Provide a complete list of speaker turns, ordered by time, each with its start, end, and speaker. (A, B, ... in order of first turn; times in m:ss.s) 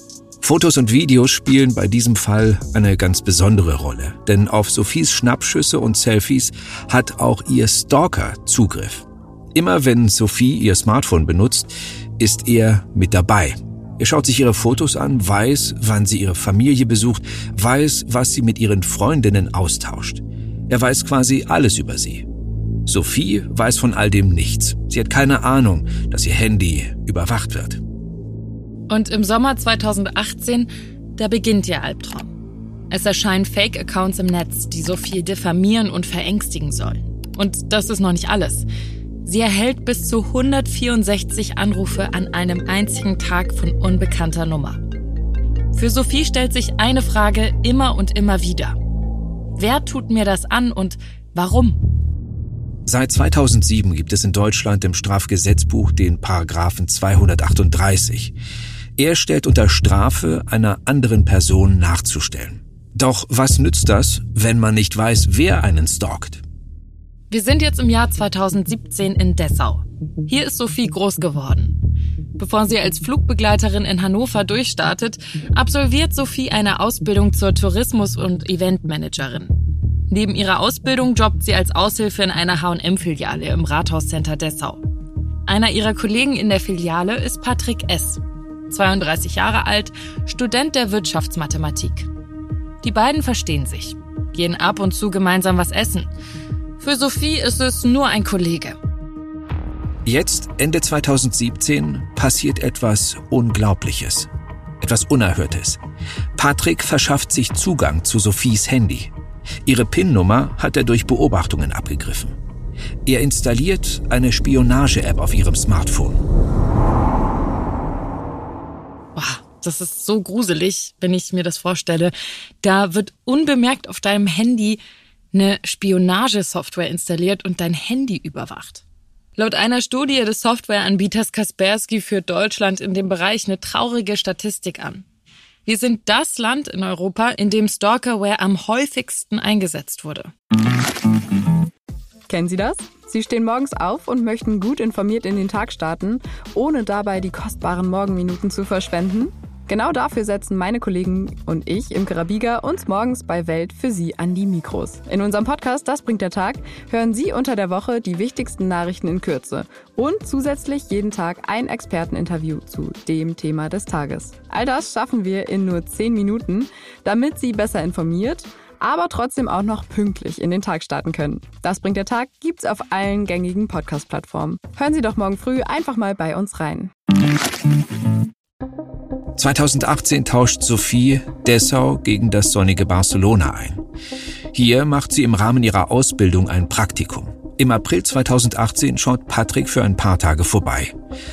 0:00.4-0:22.3 A
0:22.9-0:27.8 A
0:28.9-0:32.3 B
0:32.9-0:38.7 B
0:39.2-0:44.8 B
0:45.7-0:48.8 B
0:49.6-0:51.8 B
0:52.9-0:58.3 A
0:59.0-1:06.4 A
1:07.3-1:11.8 B
1:12.4-1:19.6 B
1:20.1-1:24.8 B
1:25.5-1:32.1 B
1:32.8-1:36.1 B
1:36.8-1:38.8 B
1:40.1-1:44.3 A
1:44.8-1:45.8 A
1:46.4-1:49.1 A
1:49.6-1:52.4 A
1:53.1-1:56.2 A
1:59.2-2:04.8 B
2:05.3-2:08.8 B
2:09.4-2:15.0 B
2:15.6-2:20.3 B
2:22.3-2:56.9 C
2:59.4-3:03.8 A
3:04.5-3:10.9 A